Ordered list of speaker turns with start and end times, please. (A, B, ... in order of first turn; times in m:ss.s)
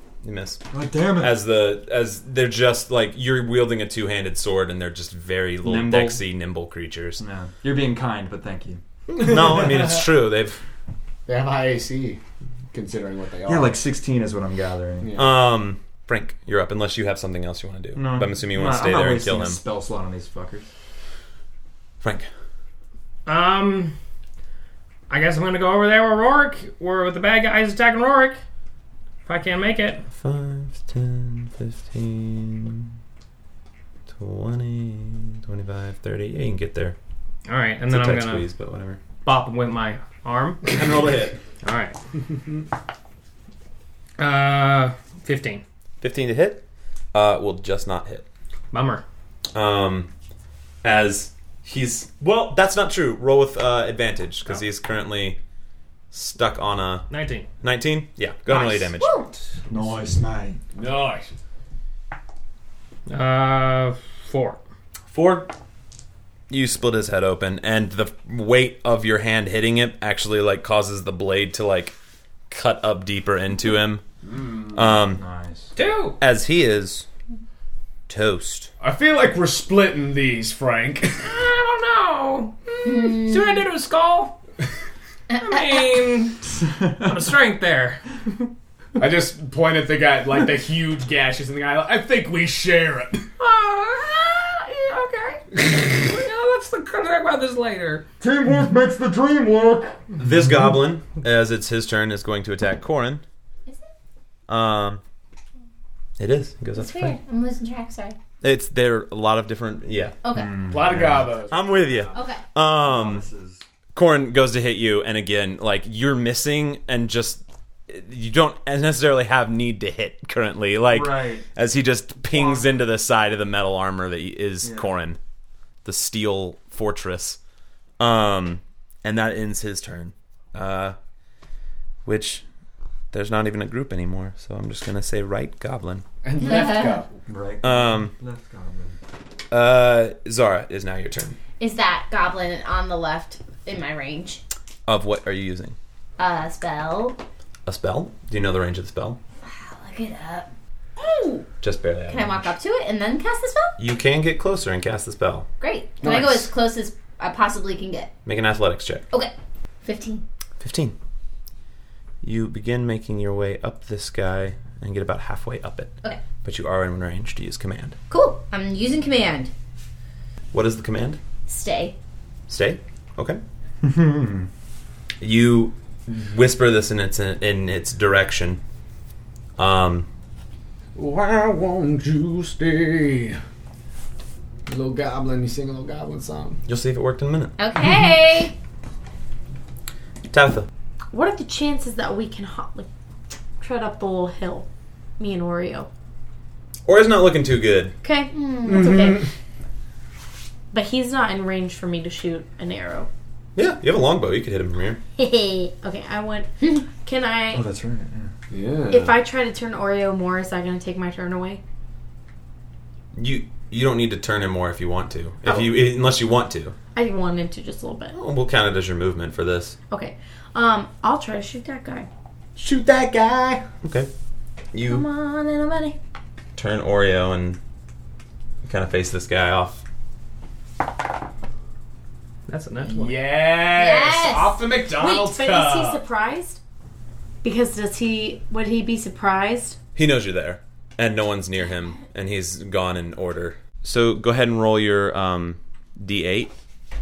0:00.2-0:00.6 A
0:00.7-0:01.4 B
0:01.2-0:07.2 A
0:05.6-0:06.2 B
0:07.2-0:09.8 B
0:09.2-0:10.6 A
0:11.3-0:12.2 C
0:12.7-0:13.8 C
0:13.4-0:15.1 B
0:15.0-0:15.4 C
0:15.2-0:19.6 A
0:17.9-0:20.7 B
0:22.0-0:22.3 A
0:23.2-0:23.9 D
0:25.1-0:28.4 D
0:29.2-0:30.0 D
0:30.1-0:32.9 A
0:34.1-0:37.0 A
0:37.5-0:38.5 D
0:37.9-0:39.0 A
0:39.2-0:40.9 D
0:40.6-0:41.4 A
0:41.6-0:42.0 D
0:44.2-0:45.6 D
0:46.0-0:48.2 A
0:48.7-0:49.0 D
0:49.5-0:50.1 A
0:50.8-0:55.4 A
0:56.1-0:57.1 A
0:57.1-0:57.5 D
0:57.6-0:59.2 A
0:58.5-0:59.3 E
0:59.7-1:00.6 B
1:00.7-1:01.3 C
1:03.1-1:04.6 D
1:05.1-1:05.5 A
1:06.5-1:11.9 A
1:12.5-1:14.0 A
1:14.2-1:14.8 C
1:14.7-1:15.2 A
1:15.1-1:15.7 B
1:15.7-1:16.2 D
1:16.2-1:17.0 A
1:18.1-1:18.7 A
1:18.8-1:21.3 C
1:21.2-1:24.4 D
1:22.8-1:23.6 E
1:25.3-1:28.0 D
1:26.8-1:27.1 B
1:29.0-1:33.3 C
1:33.4-1:38.0 D
1:38.2-1:40.0 B
1:40.2-1:43.2 A
1:43.6-1:43.9 E
1:44.5-1:45.0 A
1:46.2-1:47.2 A
1:46.7-1:48.2 E
1:48.4-1:50.2 A
1:50.2-1:50.7 E
1:50.3-1:51.3 B
1:50.7-1:52.3 C
1:51.5-1:53.2 A
1:52.1-1:52.4 E
1:52.8-1:53.6 B
1:53.9-2:05.2 A
2:00.9-2:01.5 B
2:04.6-2:04.9 B
2:05.8-2:07.4 A
2:08.0-2:11.0 A
2:12.0-2:12.4 A
2:13.1-2:16.0 A
2:16.2-2:17.1 C
2:16.4-2:17.0 E
2:17.3-2:19.0 B
2:17.6-2:18.1 A
2:19.5-2:21.4 A
2:21.6-2:24.4 E
2:24.8-2:25.8 A
2:26.2-2:27.2 E
2:27.6-2:29.2 A
2:29.4-2:31.5 E
2:31.6-2:32.5 A
2:32.1-2:33.8 E
2:33.8-2:35.5 A
2:35.6-2:38.1 E
2:36.0-2:36.4 C
2:38.2-2:39.0 A
2:39.1-2:40.2 E
2:40.6-2:40.9 A
2:42.2-2:48.0 A
2:48.1-2:49.5 E
2:50.5-2:51.2 A
2:51.5-2:52.0 E
2:52.5-2:53.4 A
2:53.8-2:54.5 B
2:55.2-2:58.6 A
2:59.6-3:00.1 A
3:00.9-3:03.4 C
3:04.7-3:06.6 C
3:06.6-3:07.5 A
3:07.6-3:08.5 E
3:10.3-3:10.7 A
3:11.1-3:12.9 F
3:13.6-3:14.7 F
3:15.2-3:15.9 F
3:16.8-3:17.9 A
3:18.0-3:19.2 F
3:18.3-3:19.2 E
3:18.6-3:19.3 C
3:20.7-3:23.1 F
3:23.6-3:25.0 A
3:25.2-3:27.6 F
3:27.5-3:28.3 B
3:28.5-3:29.1 C
3:28.9-3:31.6 F
3:33.1-3:36.7 A
3:35.4-3:35.7 F
3:36.9-3:38.2 F
3:38.1-3:39.8 A
3:39.9-3:42.1 F
3:42.6-3:43.6 C
3:43.8-3:44.1 A
3:44.7-3:45.0 A
3:45.2-3:45.9 E
3:46.6-3:47.6 A
3:48.6-3:49.8 A
3:52.5-3:53.2 D
3:52.8-3:56.0 C
3:53.7-3:54.6 E
3:54.9-3:56.6 F
3:57.4-3:59.8 F
3:59.9-4:06.5 A